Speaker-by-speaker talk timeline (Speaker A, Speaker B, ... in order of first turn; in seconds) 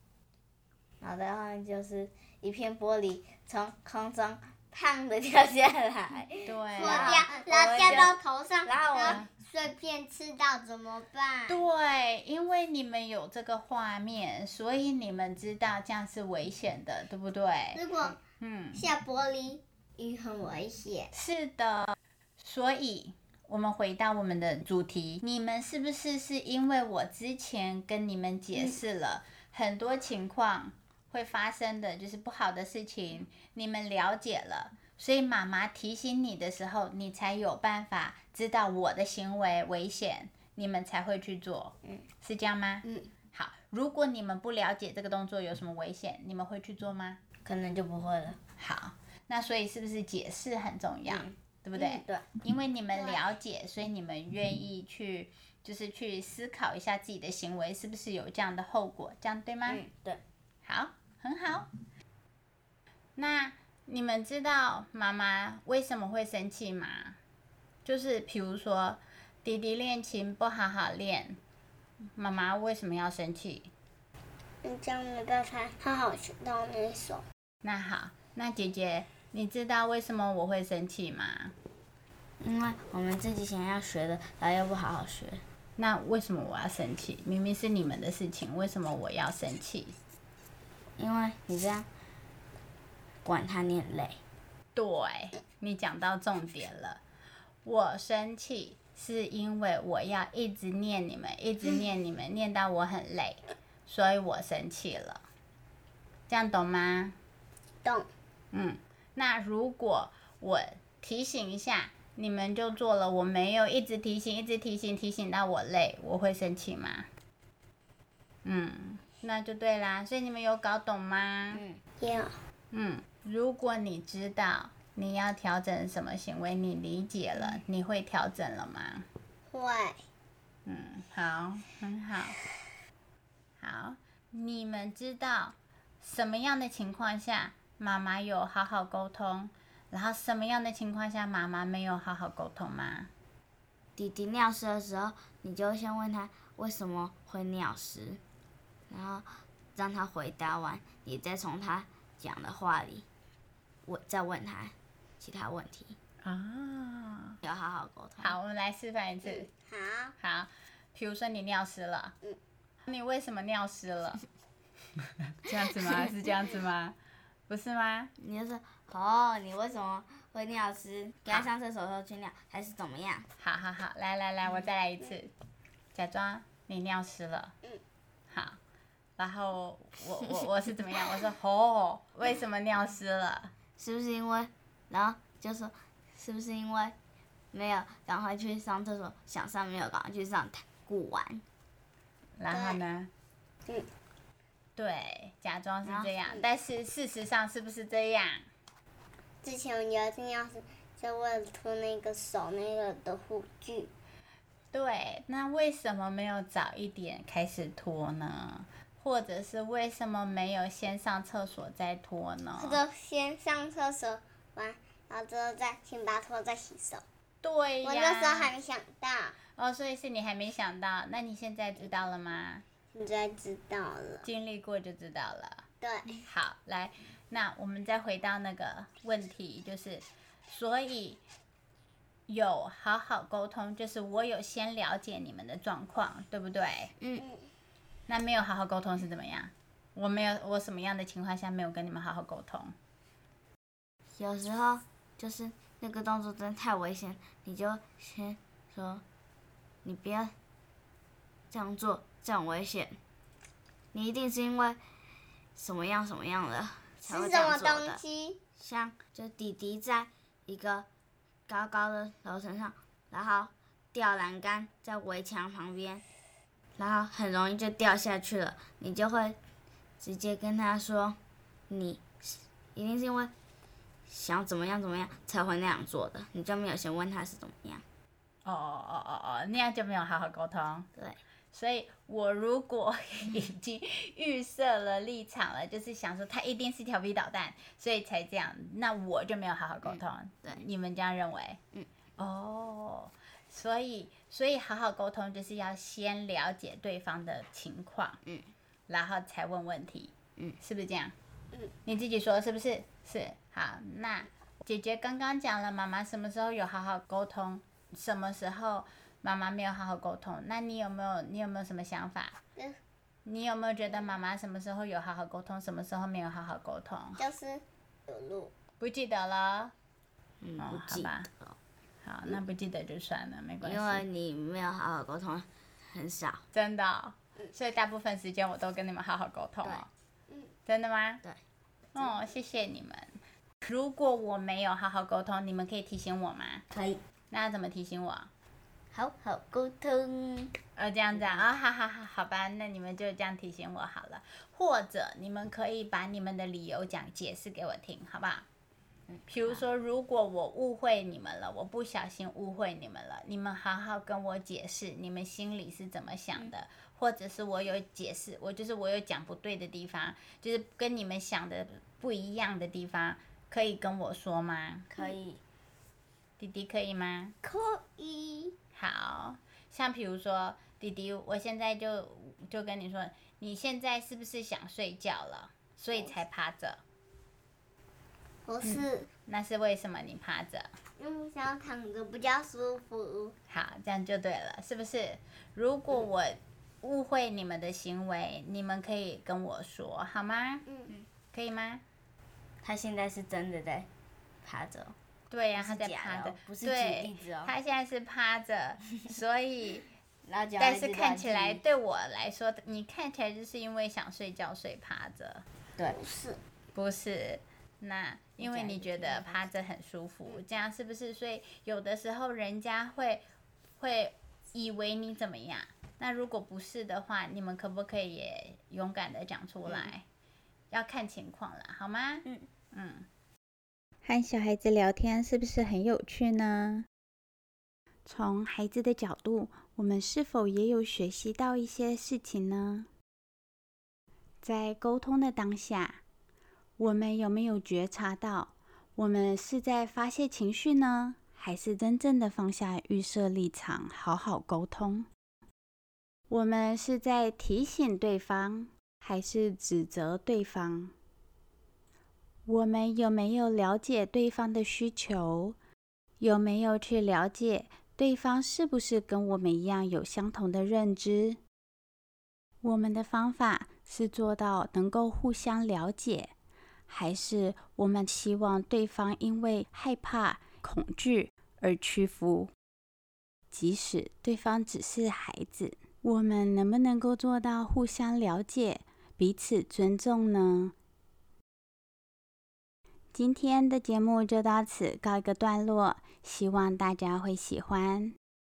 Speaker A: 1.0-9.2, 47.4-48.4, 51.0-52.2, 59.6-60.2, 82.4-85.4, 91.0-91.8, 93.2-94.2, 121.5-121.8, 144.0-148.2, 148.9-153.0, 153.9-155.9, 157.4-158.3, 168.2-173.3, 183.8-186.9, 187.5-191.4, 195.8-196.1, 237.0-237.2, 244.2-249.0, 249.8-250.3, 251.5-253.0, 253.9-254.8, 255.6-258.0, 258.6-260.9, 261.5-266.0, 266.8-269.4, 270.0-271.2, 271.7-273.3, 274.1-277.8, 289.8-290.6, 320.4-321.5, 323.6-326.4, 338.9-340.5, 341.1-341.4, 349.1-349.6, 364.9-365.4, 392.6-393.9, 394.4-394.9, 395.5-397.5, 400.2-401.6, 408.4-409.4
Speaker B: 6.5-7.3, 7.8-8.1, 9.0-9.3, 11.5-17.8, 18.4-18.8, 21.1-47.2, 48.6-59.8, 60.6-61.7, 63.2-67.2, 67.8-71.4, 72.2-73.7, 77.6-81.5, 85.8-89.9, 94.7-97.0, 97.6-105.2, 106.3-107.1, 108.5-117.0, 118.4-121.6, 122.7-129.0, 130.7-132.4, 133.6-143.1, 156.2-157.4, 158.2-159.5, 160.2-162.1, 162.8-164.2, 165.3-166.9, 167.5-168.1, 173.4-175.3, 175.9-177.5, 178.3-178.6, 179.2-183.5, 192.4-193.1, 194.8-198.4, 204.7-212.8, 217.4-218.5, 219.6-222.6, 224.2-225.6, 226.2-231.2, 232.3-236.9, 238.1-242.7, 278.4-280.9, 281.5-291.6, 292.2-298.2, 298.9-301.1, 301.9-312.4, 313.2-317.2, 318.8-319.7, 320.6-321.3, 322.0-324.0, 326.5-329.9, 330.7-331.2, 331.9-336.6, 337.3-338.3, 340.8-348.4, 349.3-364.9, 366.4-367.3, 368.8-376.8, 378.6-380.7, 383.5-390.7, 391.3-391.8, 395.3-399.8, 400.6-405.4, 406.7-413.2, 413.8-420.0, 420.7-423.1, 424.0-426.9, 428.1-432.9, 434.4-436.0, 436.8-445.1, 446.3-450.9, 452.5-455.6, 456.2-461.4, 462.6-466.3, 466.9-472.5, 473.5-480.7, 483.1-488.1
Speaker C: 6.8-11.6, 17.7-18.2, 18.7-21.1, 52.9-53.2, 74.6-77.2, 122.0-122.3, 129.5-130.0, 159.2-160.1, 192.5-192.8, 199.4-203.9, 212.6-217.0, 217.8-219.3, 222.9-224.3, 225.8-226.2, 257.0-258.4, 317.2-318.5, 367.4-368.5, 378.4-379.1, 381.0-383.4, 405.9-406.4